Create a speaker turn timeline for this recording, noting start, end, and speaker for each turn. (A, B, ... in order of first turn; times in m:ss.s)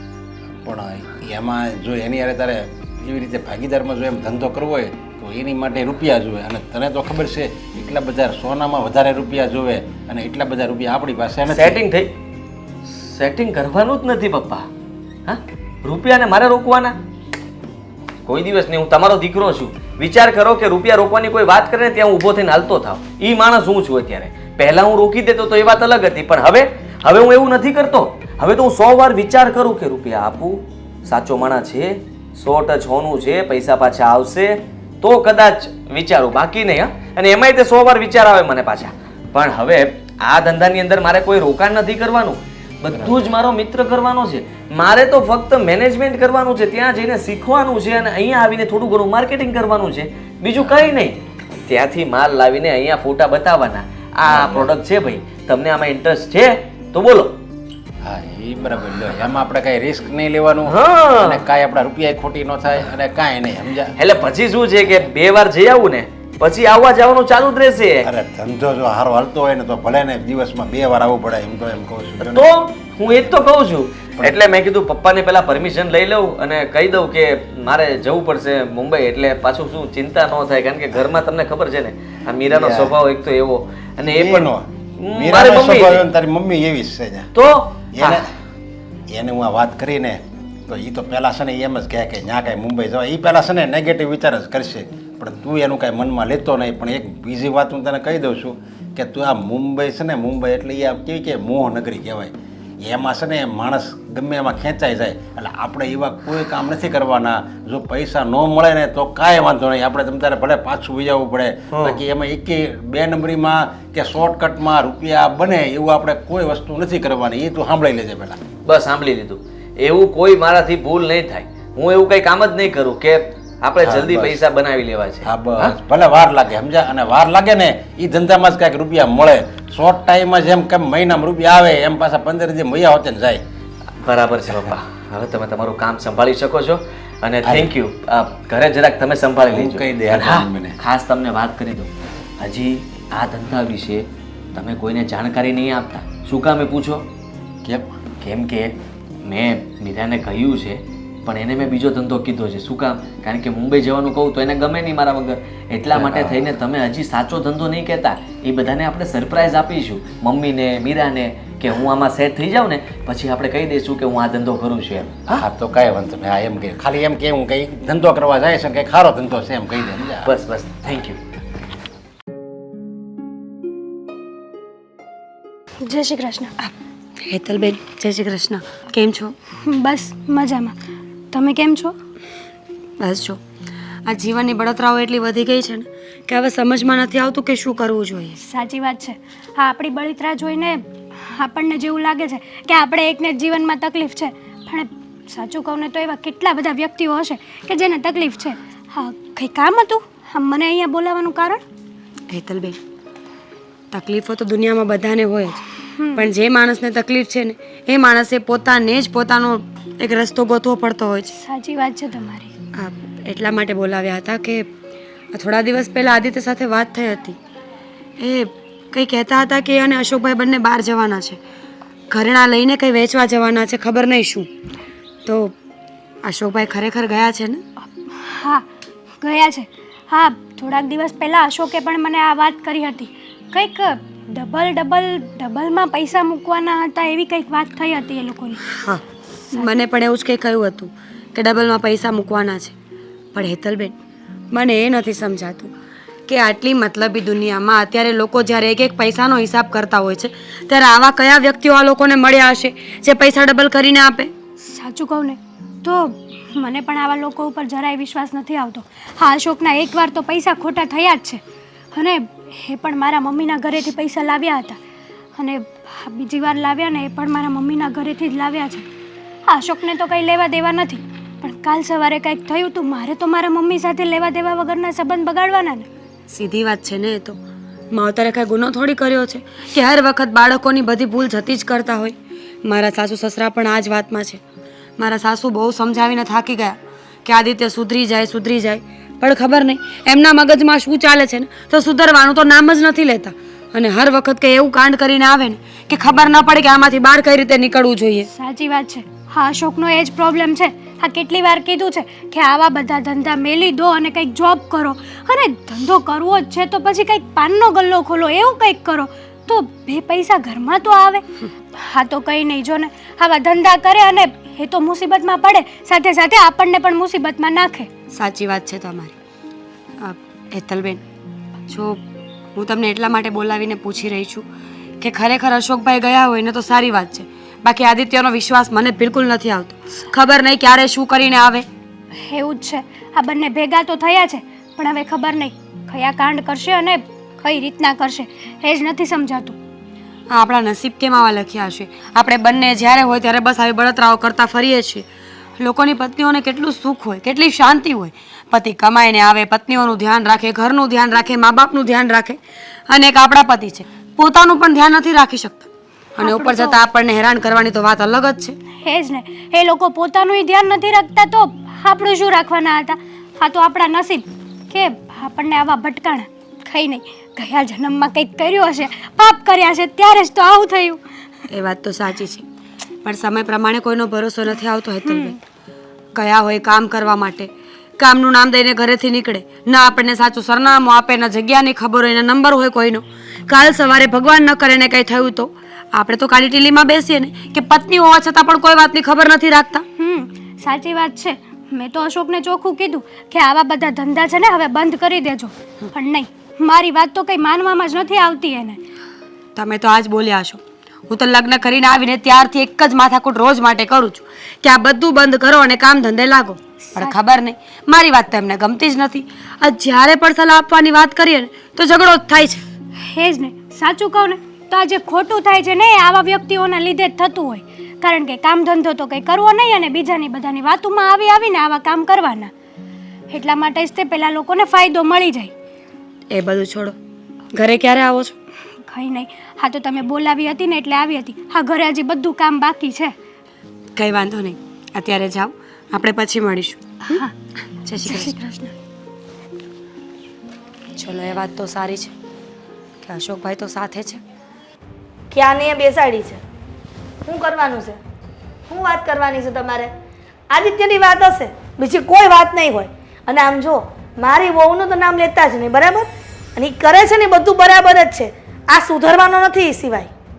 0:00.6-0:11.8 A
0:11.5-0:12.2 B
0:12.8-0:14.7 B
0:15.2-0:17.0 B
0:18.2-0:57.4 B
0:54.3-0:54.7 A
0:58.0-1:03.9 A
1:00.6-1:01.4 B
1:04.0-1:08.1 B
1:08.0-1:12.5 A
1:12.2-1:26.0 B
1:22.5-1:22.9 A
1:24.0-1:27.3 A
1:27.3-1:28.2 B
1:27.9-1:28.3 A
1:29.1-1:58.4 A
1:51.7-1:52.0 B
1:58.6-2:05.7 B
2:03.8-2:04.4 A
2:05.2-2:13.4 A
2:14.0-2:27.1 B
2:17.4-2:17.7 A
2:19.5-2:20.7 A
2:27.6-2:27.9 A
2:28.2-2:45.4 B
2:35.9-2:36.4 A
2:45.3-2:50.3 A
2:50.2-2:51.2 B
2:55.8-2:56.5 C
2:56.6-2:59.3 D
2:59.6-3:00.7 C
3:01.3-3:01.9 C
3:03.0-3:03.4 D
3:04.0-3:08.4 D
3:08.4-3:21.6 C
3:22.3-3:22.8 D
3:23.9-3:25.6 D
3:26.0-3:26.3 C
3:26.1-3:31.4 D
3:31.3-3:32.5 C
3:32.8-3:34.7 D
3:35.3-3:37.4 D
3:38.2-3:41.4 D
3:42.1-3:44.5 D
3:45.2-3:45.5 D
3:46.2-3:47.6 D
3:48.0-3:48.6 C
3:49.2-3:58.6 C
3:58.7-3:59.0 D
3:59.5-4:02.7 D
4:03.3-4:04.0 D
4:04.5-4:05.7 D
4:06.3-4:14.3 D
4:14.6-4:21.4 C
4:21.9-4:24.8 C
4:25.4-4:28.8 C
4:29.5-4:35.9 C
4:36.3-4:37.4 D
4:37.9-4:44.4 D
4:45.0-4:58.3 D
4:58.3-5:17.9 C
5:18.1-5:19.2 D
5:20.0-5:21.0 D
5:21.7-5:22.0 D
5:22.5-5:24.5 D
5:25.0-5:31.6 D
5:32.2-5:39.6 C
5:40.3-5:45.0 D
5:45.6-5:58.6 D
5:56.2-5:56.8 C
5:58.8-6:11.0 C
6:11.5-6:12.4 D
6:13.0-6:15.4 D
6:16.1-6:29.8 D
6:30.0-6:38.8 C
6:39.6-6:52.6 D
6:53.0-7:02.5 C
7:03.3-7:05.5 C
7:06.3-7:07.0 D
7:07.5-7:08.4 D
7:08.9-7:13.1 C
7:14.0-7:17.2 D
7:17.8-7:18.4 D
7:18.0-7:18.7 C
7:21.0-7:22.1 D
7:23.0-7:24.2 D
7:25.3-7:26.4 E
7:27.2-7:28.0 E
7:28.7-7:29.9 E
7:30.5-7:40.1 E